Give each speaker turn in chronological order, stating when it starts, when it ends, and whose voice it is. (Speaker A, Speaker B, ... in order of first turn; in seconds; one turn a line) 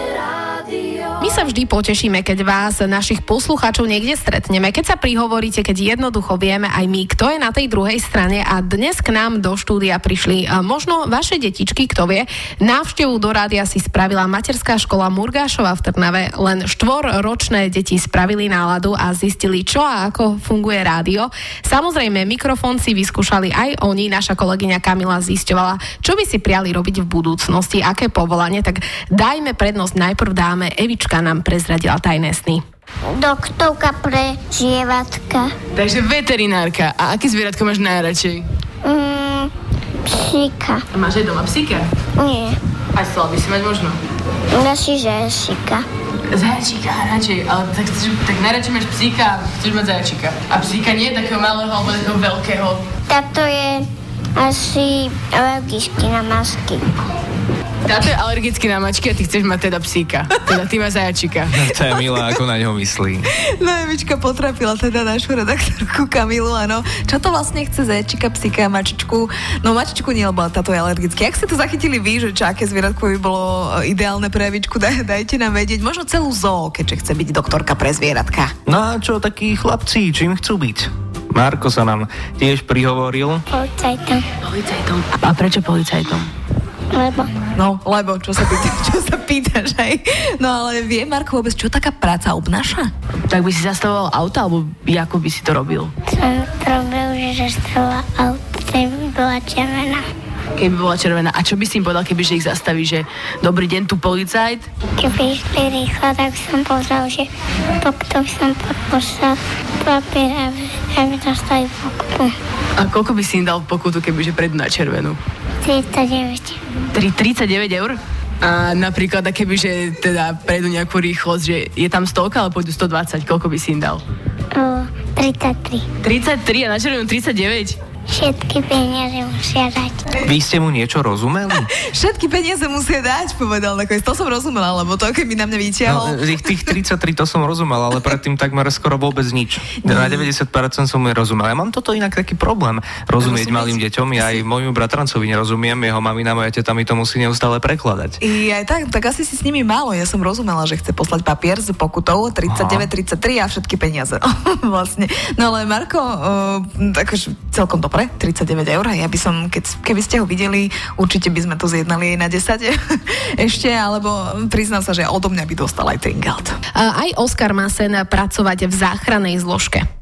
Speaker A: 1.2-32.6
Speaker B: 33.1-35.5
Speaker C: 35.7-38.4
Speaker B: 38.8-39.5
Speaker B: 40.0-40.8
Speaker C: 40.9-41.9
Speaker B: 42.2-42.6
Speaker C: 43.0-44.0
Speaker B: 44.5-45.9
Speaker C: 46.3-52.8
Speaker B: 53.1-56.9
Speaker C: 57.9-61.5
Speaker D: 61.5-63.3
Speaker E: 61.9-62.4
Speaker E: 63.5-78.5
Speaker D: 78.7-83.4
Speaker B: 83.5-84.2
Speaker C: 84.5-86.3
Speaker B: 86.9-87.3
Speaker E: 87.5-92.9
Speaker C: 93.3-95.9
Speaker B: 96.1-100.0
Speaker C: 100.6-104.7
Speaker B: 105.0-112.3
Speaker C: 112.8-115.2
Speaker B: 115.6-116.6
Speaker C: 116.9-124.0
Speaker B: 124.5-125.9
Speaker C: 126.0-127.8
Speaker B: 128.1-130.1
Speaker D: 130.2-131.7
Speaker E: 131.5-136.8
Speaker D: 135.8-148.2
Speaker E: 139.8-140.3
Speaker E: 143.2-144.4
Speaker E: 148.2-162.7
Speaker D: 152.5-152.9
Speaker E: 163.4-166.6
Speaker A: 166.8-169.8